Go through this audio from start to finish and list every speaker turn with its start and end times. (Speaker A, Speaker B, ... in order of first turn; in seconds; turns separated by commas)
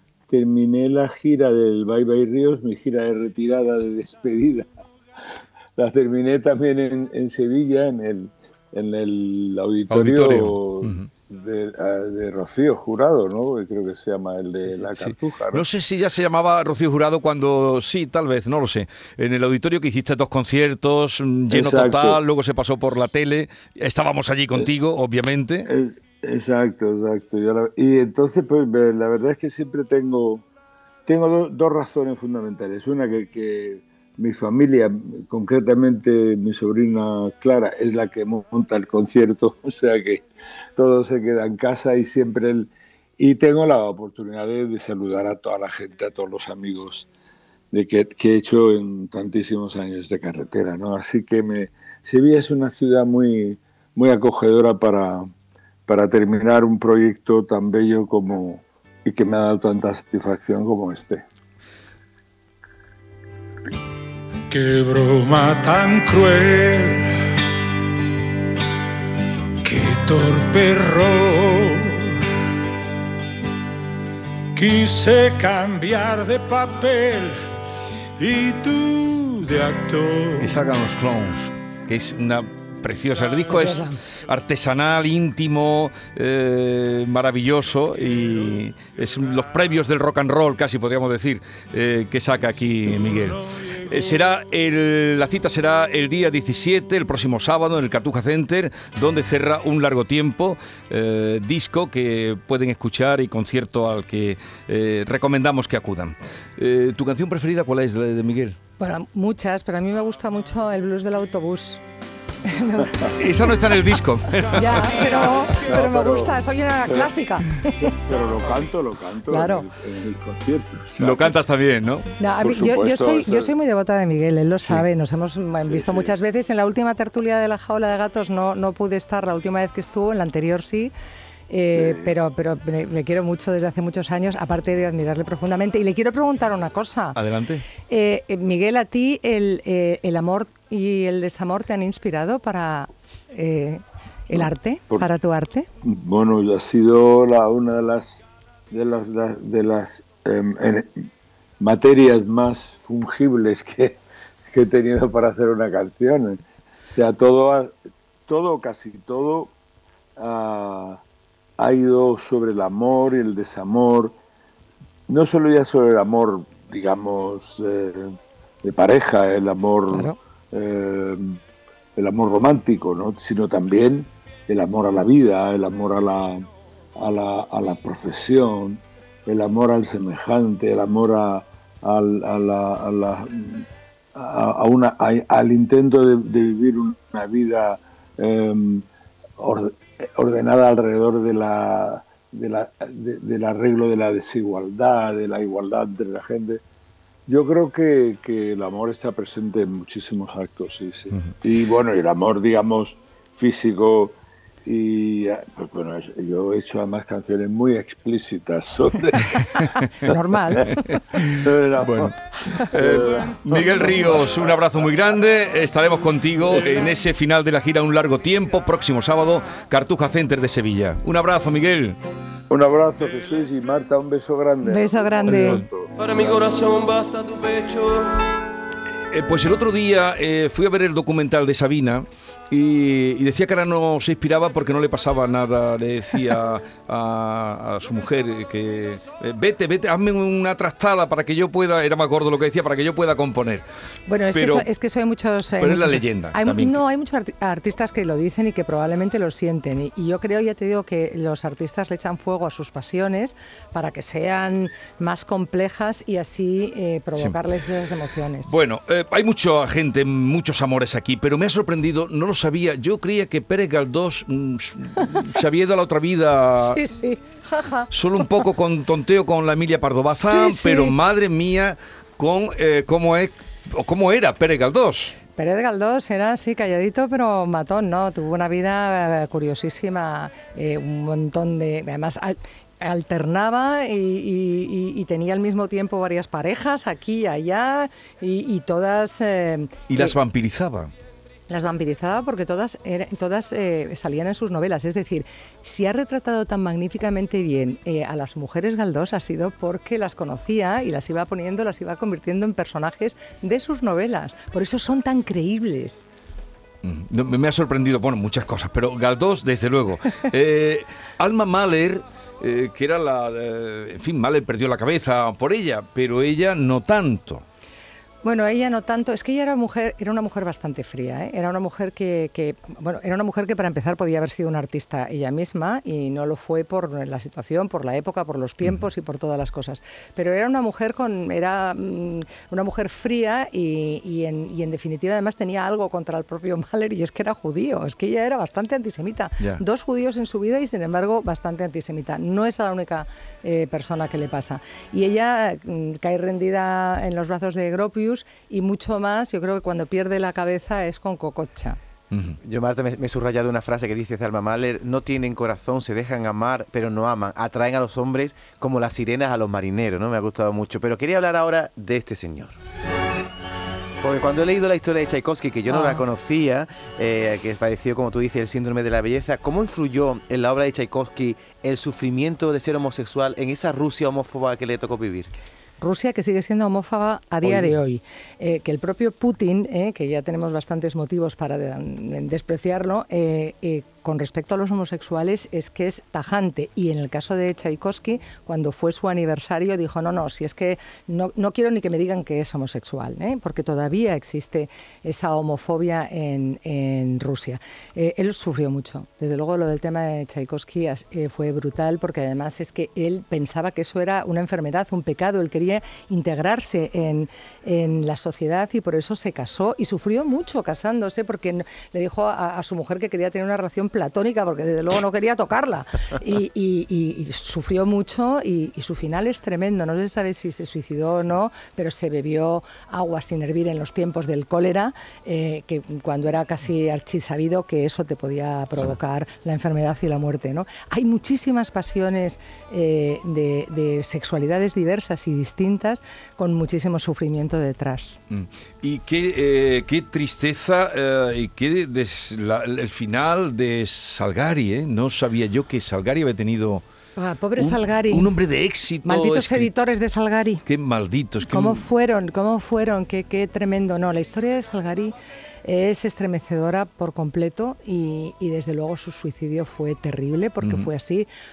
Speaker A: 0.3-4.7, Speaker A: 5.8-15.6, Speaker B: 9.9-11.1, Speaker B: 15.0-25.7, Speaker A: 21.5-22.2, Speaker A: 25.7-30.4, Speaker A: 31.1-40.2, Speaker A: 40.8-47.1, Speaker A: 47.7-55.3, Speaker A: 55.9-61.2, Speaker C: 64.5-67.1, Speaker C: 69.6-72.2, Speaker C: 74.5-77.4, Speaker C: 78.2-80.6, Speaker B: 80.4-108.6, Speaker D: 83.5-84.0, Speaker C: 93.3-93.7, Speaker D: 108.8-111.8, Speaker D: 112.4-113.1, Speaker B: 113.1-115.0, Speaker D: 114.5-117.9, Speaker C: 115.0-115.5, Speaker A: 115.5-117.1, Speaker A: 117.8-121.3, Speaker D: 119.3-119.7, Speaker B: 121.0-122.1, Speaker D: 122.2-130.9, Speaker A: 122.4-123.5, Speaker A: 125.7-126.1, Speaker D: 131.5-137.2, Speaker A: 131.8-132.1, Speaker B: 137.1-137.6, Speaker D: 137.8-145.7, Speaker A: 145.8-150.9, Speaker A: 151.6-157.8, Speaker A: 158.3-159.5, Speaker A: 160.2-161.0, Speaker A: 161.6-164.2, Speaker A: 165.1-171.4, Speaker D: 169.9-170.2, Speaker A: 172.0-176.4, Speaker A: 177.0-188.8, Speaker A: 189.4-196.6, Speaker A: 197.3-214.3, Speaker D: 209.5-210.7, Speaker B: 210.7-222.0, Speaker A: 222.5-226.3, Speaker D: 224.6-225.6, Speaker E: 225.9-228.2, Speaker B: 229.1-243.6, Speaker D: 244.1-258.5, Speaker B: 244.3-244.7, Speaker B: 245.6-246.8, Speaker B: 258.5-266.8, Speaker D: 266.6-268.3, Speaker B: 267.9-275.1, Speaker D: 270.1-270.9, Speaker D: 275.4-290.2, Speaker B: 289.9-290.9, Speaker D: 291.5-306.1, Speaker B: 306.8-317.4, Speaker D: 318.2-351.8, Speaker B: 352.1-352.4, Speaker F: 352.4-362.6, Speaker F: 364.0-375.3, Speaker D: 365.7-366.0, Speaker D: 375.8-438.2, Speaker B: 438.3-446.8, Speaker D: 447.2-448.3, Speaker B: 447.6-449.7, Speaker D: 449.0-450.6, Speaker B: 450.6-451.8, Speaker D: 451.4-461.3, Speaker B: 460.6-460.9